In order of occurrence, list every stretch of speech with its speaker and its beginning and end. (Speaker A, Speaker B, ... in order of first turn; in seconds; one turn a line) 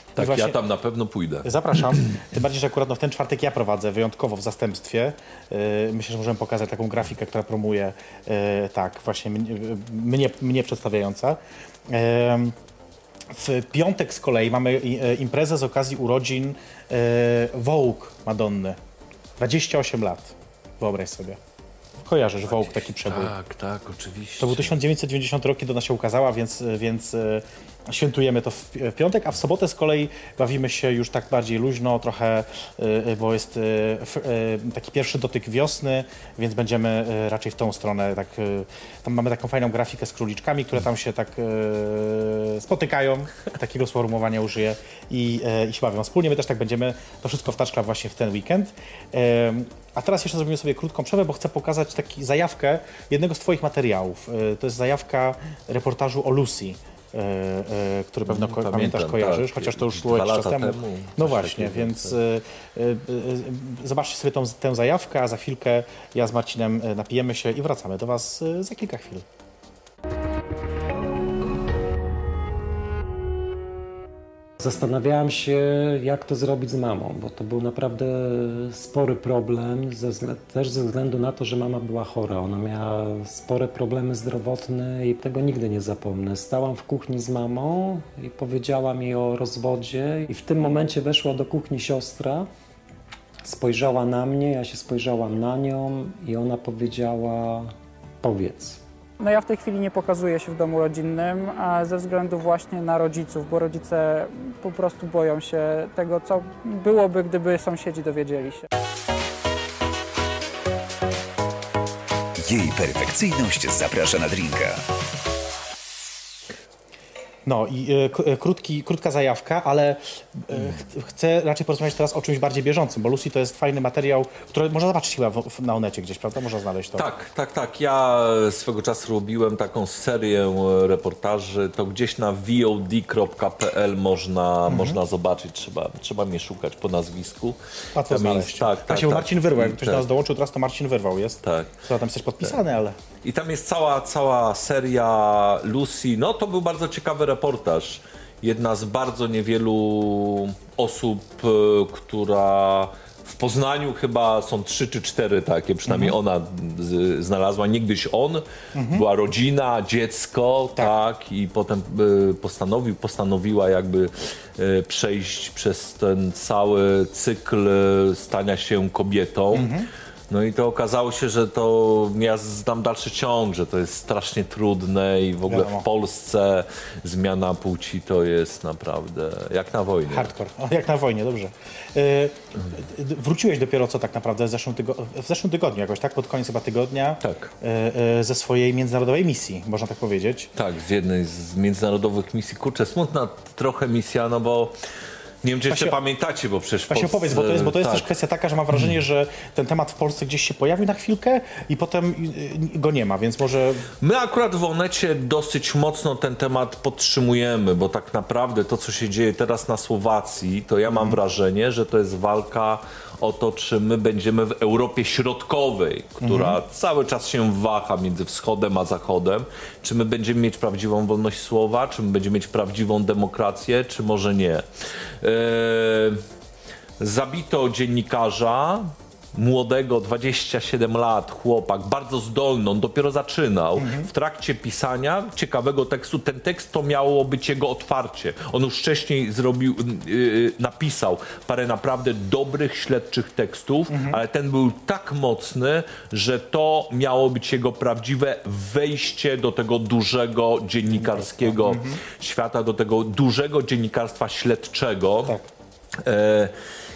Speaker A: 0.1-2.0
Speaker B: 0.2-0.6
Speaker B: 1.4-12.5
Speaker B: 13.3-18.8
Speaker B: 19.4-21.4
Speaker B: 22.1-23.3
Speaker A: 22.5-24.8
Speaker B: 24.4-69.2
Speaker A: 58.3-62.2
Speaker C: 74.6-92.5
Speaker C: 93.4-98.8
Speaker D: 99.2-108.7
Speaker E: 112.4-114.8
Speaker B: 117.5-127.1
Speaker A: 127.0-137.6
Speaker B: 134.7-135.0
Speaker B: 137.9-142.9
Speaker A: 138.1-140.1
Speaker A: 141.4-141.8
Speaker A: 143.2-169.7
Speaker B: 155.9-156.2
Speaker B: 158.7-159.0
Speaker B: 169.5-169.9
Speaker A: 170.3-180.3
Speaker B: 175.5-175.8
Speaker B: 180.1-190.5
Speaker A: 187.2-187.5
Speaker A: 190.5-194.7
Speaker A: 195.4-198.1
Speaker B: 195.7-195.9
Speaker B: 196.9-203.8
Speaker A: 204.0-224.7
Speaker B: 210.9-211.2
Speaker B: 216.2-216.6
Speaker A: 225.2-226.2
Speaker A: 227.0-255.4
Speaker B: 233.8-234.1
Speaker B: 243.9-244.2
Speaker B: 250.9-252.0
Speaker A: 256.0-256.5